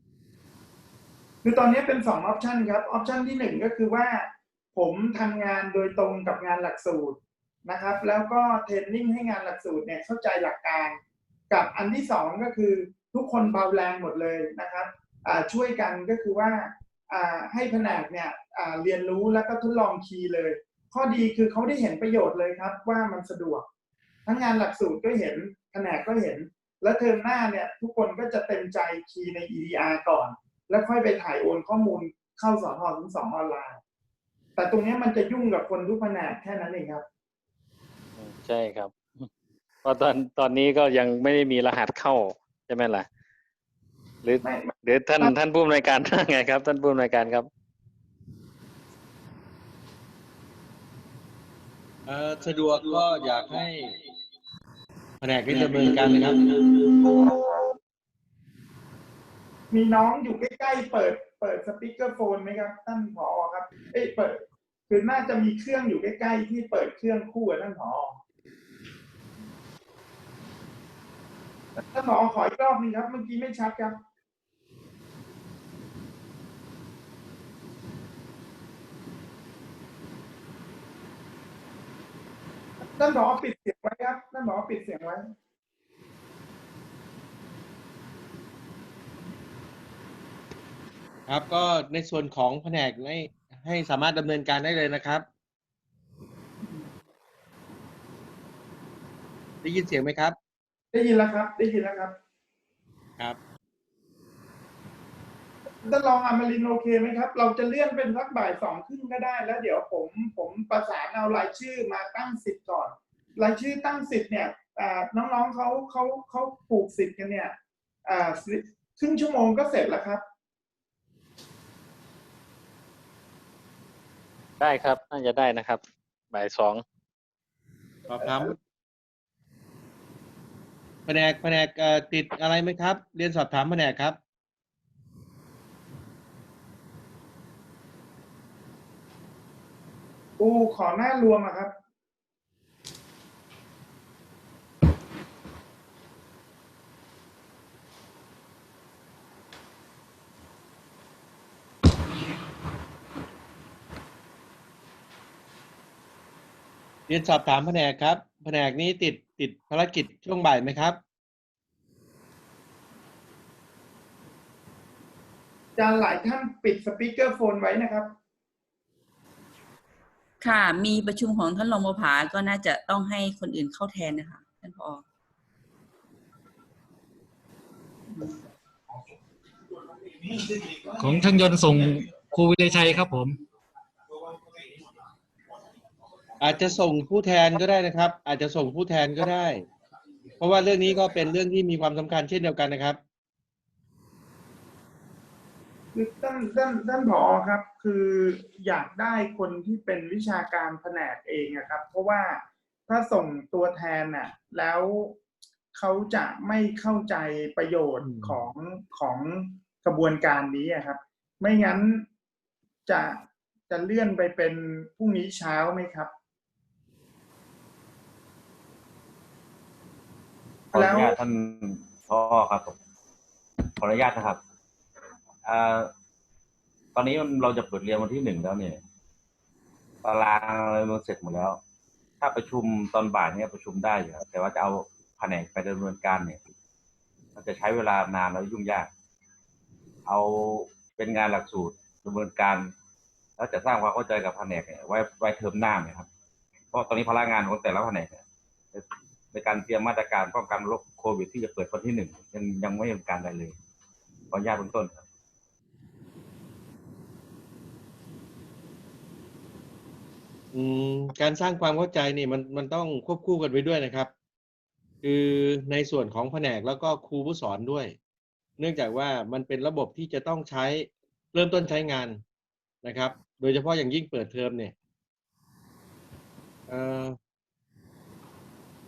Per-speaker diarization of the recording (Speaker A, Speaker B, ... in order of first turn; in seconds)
Speaker A: 1.4-11.0, 11.5-23.6, 24.2-33.8, 34.6-37.0, 44.4-45.4, 59.7-68.2, 71.8-74.0, 82.8-85.3, 96.6-96.9, 100.9-102.1, 105.8-120.2, 140.4-141.7, 165.8-168.1, 178.1-178.4, 195.9-205.2, 205.7-212.1, 212.9-216.1, 220.7-221.2
Speaker B: 38.2-39.3, 39.8-43.1, 44.2-47.5, 124.6-125.8, 126.3-126.8
Speaker C: 52.0-54.0, 55.2-56.6, 91.3-95.2, 99.6-100.3, 128.1-128.6, 131.1-134.2, 157.1-161.0, 186.4-189.7, 190.4-193.0, 208.0-208.4, 260.5-264.1, 265.0-267.9, 268.6-272.2, 272.8-274.7, 276.7-277.2
Speaker D: 170.4-175.0
Speaker E: 181.0-183.4
Speaker F: 220.7-222.8, 223.8-224.4, 225.4-225.9, 226.9-228.8, 230.0-231.6, 232.2-236.4, 237.3-238.9, 240.0-242.7, 243.4-246.1, 246.7-248.2, 248.7-253.6, 254.3-255.1